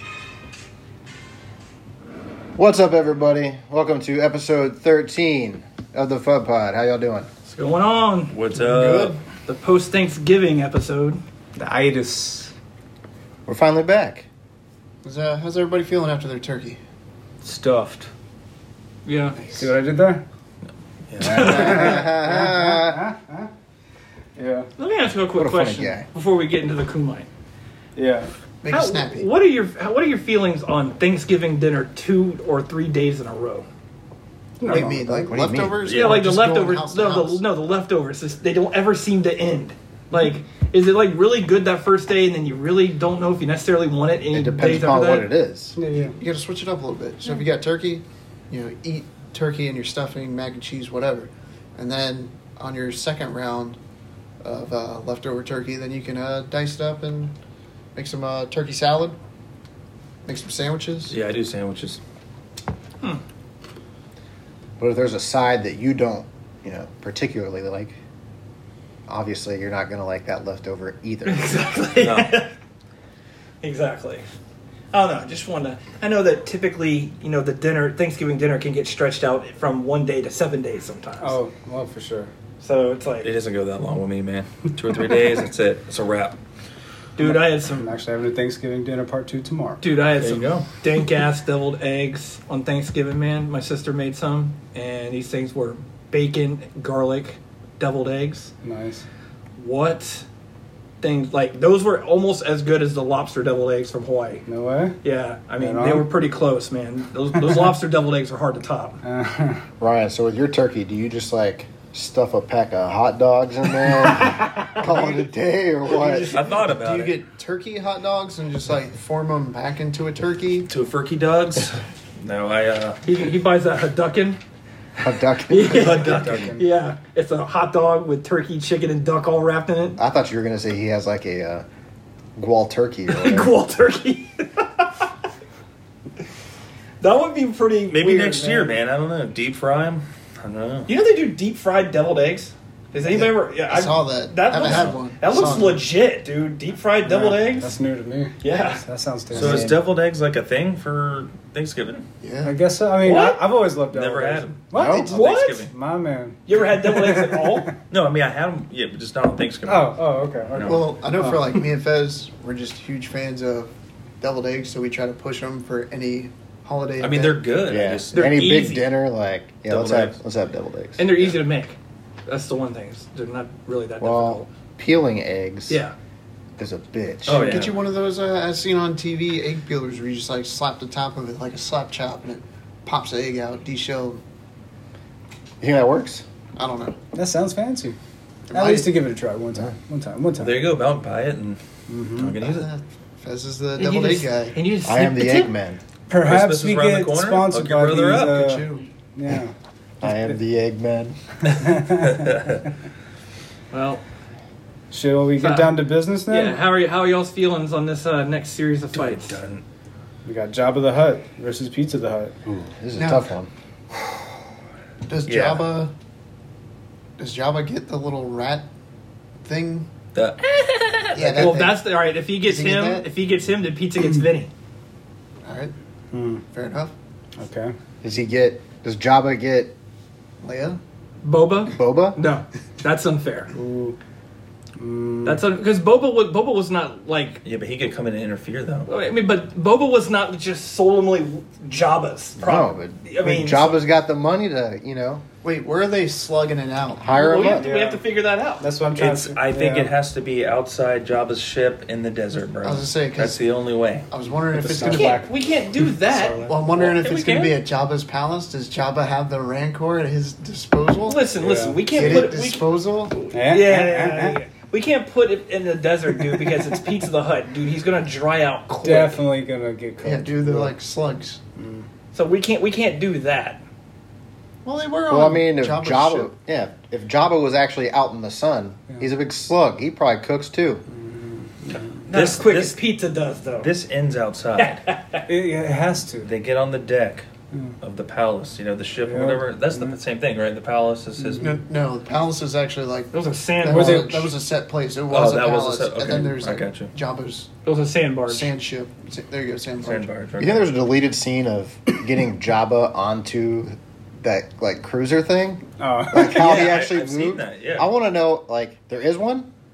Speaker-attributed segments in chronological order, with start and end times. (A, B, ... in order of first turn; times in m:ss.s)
0:02.6-0:07.3 A
0:07.5-0:08.4 B
0:08.3-0:09.2 C
0:08.5-0:09.2 D
0:09.3-0:11.2 B
0:11.6-0:12.5 E
0:13.4-0:14.2 A
0:15.0-0:16.8 D
0:17.4-0:18.1 E
0:19.0-0:19.4 B
0:19.4-0:19.7 D
0:19.6-0:20.2 E
0:21.1-0:22.0 C
0:21.2-0:23.5 E
0:21.3-0:21.9 B
0:21.3-0:23.0 A
0:24.4-0:24.7 E
0:24.8-0:27.3 B
0:25.3-0:26.0 A
0:28.0-0:28.3 E
0:28.6-0:29.3 D
0:28.7-0:33.6 B
0:34.6-0:35.4 E
0:34.6-0:37.4 D
0:34.7-0:35.8 A
0:35.8-0:36.2 C
0:35.9-0:45.3 B
0:44.3-0:45.8 A
0:45.7-0:46.2 E
0:46.0-0:53.8 D
0:54.4-0:57.3 D
0:58.0-0:59.2 D
1:00.2-1:01.1 D
1:01.1-1:02.0 C
1:04.8-1:07.9 A
1:09.1-1:11.6 A
1:11.2-1:12.5 B
1:12.0-1:12.3 C
1:13.6-1:14.2 B
1:14.9-1:21.4 B
1:21.2-1:22.3 E
1:22.6-1:23.3 B
1:23.2-1:26.4 C
1:27.2-1:27.9 B
1:27.2-1:29.8 E
1:29.8-1:38.5 B
1:30.2-1:30.8 C
1:38.6-1:39.0 E
1:39.6-1:40.2 B
1:41.0-1:44.4 B
1:44.4-1:45.0 E
1:45.0-1:49.0 B
1:45.6-1:46.1 E
1:49.0-1:49.6 E
1:49.8-1:56.4 A
1:55.9-1:56.4 B
1:56.2-2:00.7 D
1:56.3-1:57.2 C
2:00.7-2:03.0 C
2:03.0-2:04.4 B
2:05.0-2:06.3 A
2:05.5-2:10.0 B
2:05.7-2:06.6 C
2:06.0-2:06.6 E
2:10.0-2:11.6 A
2:12.4-2:13.5 A
2:13.1-2:15.1 B
2:17.0-2:18.8 B
2:17.9-2:20.9 C
2:20.9-2:27.7 B
2:23.0-2:25.8 D
2:24.6-2:25.0 C
2:27.0-2:29.8 E
2:28.4-2:28.8 B
2:29.3-2:32.0 C
2:29.4-2:29.7 A
2:32.2-2:32.6 D
2:32.4-2:37.7 E
2:33.0-2:33.5 B
2:33.9-2:35.7 C
2:34.8-2:35.1 A
2:35.0-2:35.7 B
2:36.4-2:37.8 B
2:37.9-2:40.0 C
2:39.6-2:41.5 E
2:40.5-2:40.9 C
2:40.6-2:47.5 D
2:47.0-2:48.1 C
2:47.7-2:51.2 A
2:48.1-2:48.8 B
2:49.7-2:50.1 C
2:51.0-2:54.5 B
2:54.0-2:55.8 A
2:55.7-2:55.9 B
2:56.6-2:57.5 A
2:57.2-2:57.8 C
2:57.3-3:04.2 D
3:05.6-3:06.2 A
3:06.6-3:07.0 D
3:07.1-3:08.0 E
3:08.5-3:08.9 D
3:08.5-3:10.6 E
3:10.4-3:11.6 C
3:11.9-3:12.4 E
3:12.1-3:12.7 C
3:12.4-3:14.6 D
3:13.8-3:15.5 B
3:14.8-3:15.8 A
3:16.1-3:19.5 E
3:16.2-3:18.4 C
3:18.1-3:18.9 D
3:20.0-3:21.2 A
3:20.0-3:20.4 E
3:21.5-3:22.4 E
3:21.9-3:22.6 C
3:23.7-3:24.0 B
3:24.9-3:26.6 E
3:25.4-3:29.4 B
3:28.9-3:29.6 C
3:30.2-3:32.3 E
3:32.4-3:33.5 A
3:33.0-3:33.3 D
3:35.0-3:35.9 D
3:35.2-3:35.6 C
3:37.2-3:38.6 D
3:39.4-3:39.9 D
3:40.1-3:40.4 C
3:40.4-3:44.5 B
3:41.1-3:43.1 D
3:45.4-3:45.7 D
3:46.1-3:46.4 E
3:46.5-3:46.9 D
3:47.4-3:47.7 E
3:48.0-3:49.7 A
3:50.4-3:50.8 D
3:51.2-3:53.5 B
3:51.7-3:52.2 A
3:53.5-3:54.0 E
3:54.8-3:55.4 E
3:55.2-3:57.4 B
3:57.4-3:58.9 C
3:58.9-4:03.8 B
4:02.4-4:05.2 A
4:05.4-4:07.1 D
4:07.0-4:07.7 A
4:07.1-4:08.6 B
4:07.4-4:08.0 E
4:08.6-4:09.9 E
4:09.0-4:14.1 C
4:12.6-4:13.4 D
4:14.1-4:15.2 D
4:14.5-4:15.4 E
4:14.8-4:17.6 B
4:16.0-4:16.5 E
4:16.4-4:21.3 D
4:21.0-4:22.7 B
4:21.4-4:22.1 E
4:21.9-4:23.2 D
4:23.3-4:24.4 E
4:23.4-4:29.2 B
4:26.4-4:26.6 E
4:28.8-4:30.7 E
4:30.0-4:31.4 D
4:31.6-4:31.9 E
4:32.1-4:33.6 B
4:34.6-4:36.3 D
4:35.1-4:40.8 A
4:40.9-4:42.1 E
4:42.0-4:43.7 B
4:42.1-4:42.8 C
4:43.6-4:44.8 C
4:44.6-4:45.2 B
4:45.2-4:46.3 E
4:46.2-4:47.2 C
4:47.8-4:51.4 C
4:49.0-4:49.9 E
4:51.2-4:51.6 E
4:51.4-4:57.5 D
4:53.1-4:54.1 B
4:53.6-4:54.3 E
4:55.1-4:56.9 C
4:57.6-4:58.5 B
4:58.3-5:00.1 D
4:59.8-5:00.8 C
5:00.4-5:09.5 A
5:05.8-5:06.4 E
5:06.3-5:07.9 C